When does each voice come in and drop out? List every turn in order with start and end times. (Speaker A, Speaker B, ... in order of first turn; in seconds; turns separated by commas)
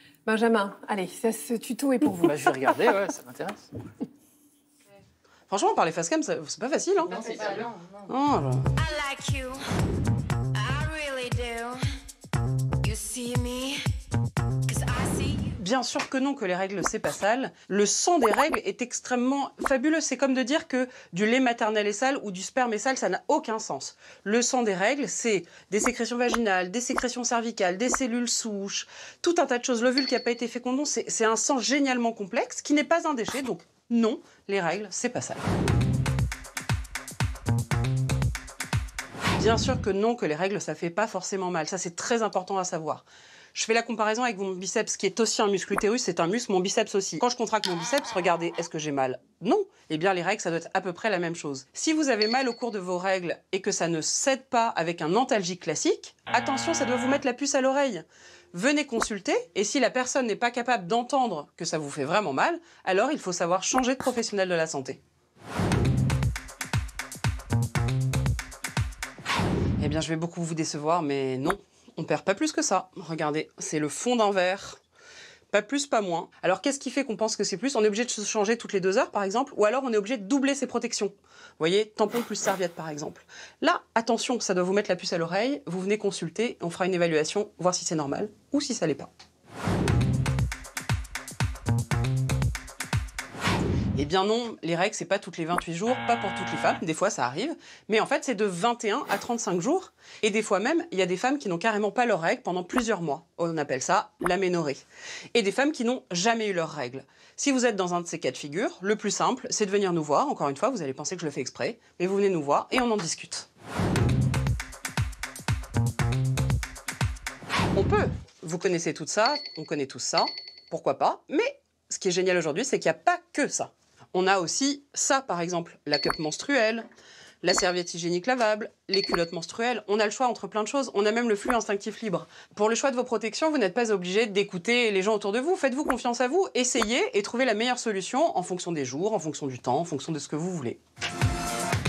Speaker A: 0.2-2.5, Speaker B: 2.2-3.7, Speaker C: 5.5-8.7, Speaker B: 7.1-7.7, Speaker D: 8.8-9.7, Speaker D: 10.5-11.9, Speaker D: 12.8-13.8, Speaker D: 14.7-15.5, Speaker C: 15.5-35.5, Speaker C: 39.4-65.0, Speaker C: 69.8-74.8, Speaker C: 75.5-89.1, Speaker C: 94.0-113.5, Speaker C: 117.7-126.9, Speaker C: 127.4-140.8